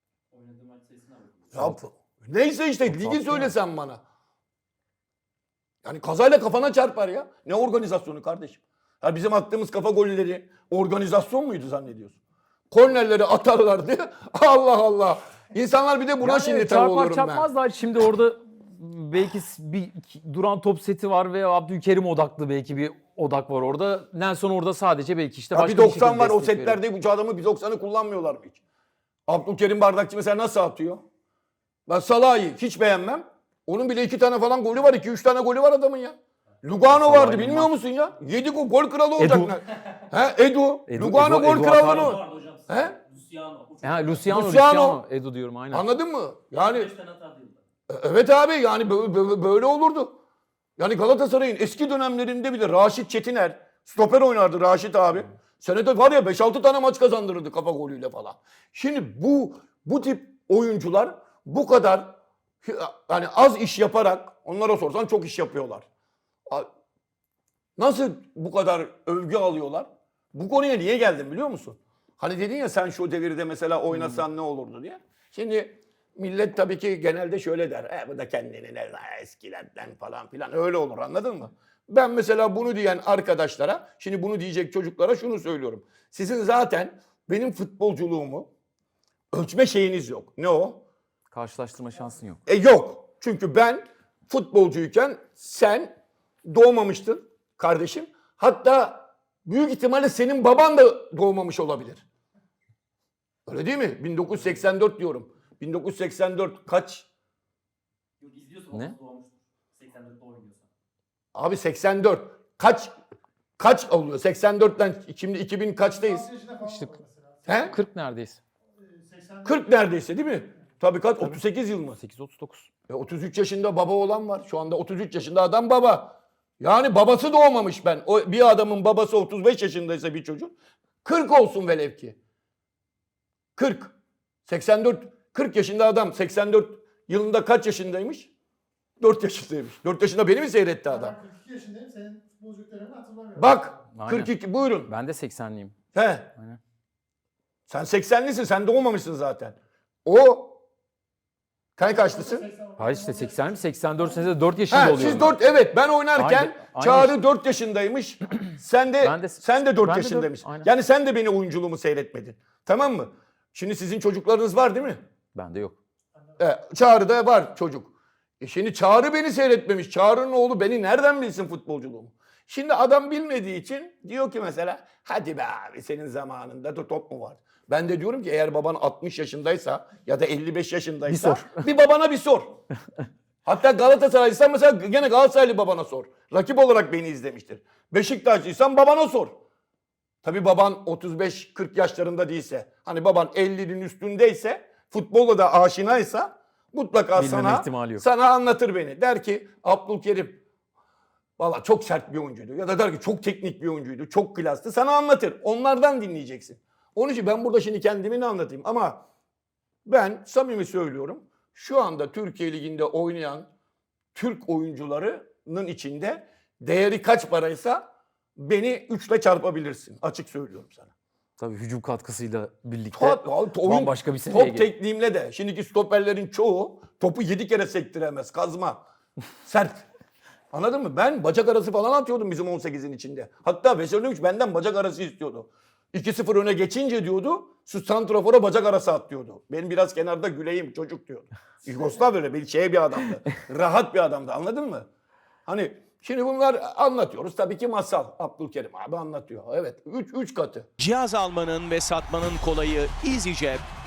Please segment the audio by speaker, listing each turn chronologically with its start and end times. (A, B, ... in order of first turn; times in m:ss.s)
0:00.4-0:01.7 A
0:01.5-0:04.0 B
0:02.9-0:03.5 A
0:05.8-0:12.2 B
0:12.7-0:17.5 B
0:16.2-0:26.8 A
0:25.5-0:28.6 B
0:29.3-0:31.0 B
0:31.9-0:43.0 B
0:36.9-0:37.7 A
0:39.2-0:39.6 A
0:40.9-0:42.6 A
0:43.0-0:43.8 C
0:43.8-0:45.9 A
0:44.2-0:45.0 B
0:45.7-0:47.0 B
0:47.1-0:47.4 C
0:47.9-0:50.2 B
0:50.8-1:05.9 B
1:07.8-1:28.5 B
1:29.3-1:30.8 B
1:31.3-1:32.4 A
1:32.5-1:35.9 B
1:36.4-1:42.0 B
1:43.5-1:47.1 B
1:48.2-1:50.6 C
1:48.7-1:49.0 A
1:51.4-1:52.9 B
1:53.6-1:56.3 B
1:56.2-1:57.5 D
1:56.7-1:57.0 A
1:57.5-1:57.8 B
1:57.7-1:58.4 A
1:59.0-1:59.4 D
1:59.4-2:02.0 B
2:02.0-2:02.7 A
2:02.9-2:12.2 B
2:13.6-2:13.9 B
2:14.5-2:18.3 B
2:19.0-2:21.2 B
2:21.1-2:23.5 D
2:23.4-2:24.9 B
2:23.9-2:24.3 A
2:24.9-2:25.8 A
2:25.9-2:26.3 B
2:26.3-2:26.6 A
2:27.7-2:30.6 B
2:31.8-2:32.5 B
2:32.5-2:33.4 D
2:32.8-2:35.4 A
2:34.7-2:45.0 B
2:36.1-2:37.2 A
2:39.0-2:40.7 A
2:45.3-2:45.8 A
2:46.4-3:02.5 B
3:01.1-3:01.7 A
3:03.4-3:09.4 B
3:10.2-3:20.4 B
3:17.1-3:18.0 A
3:21.4-3:29.0 B
3:29.9-3:33.5 B
3:34.1-3:40.9 B
3:41.4-3:44.7 A
3:42.9-3:48.8 B
3:49.4-3:49.8 B
3:50.5-4:04.9 B
4:05.5-4:10.7 B
4:10.8-4:13.6 E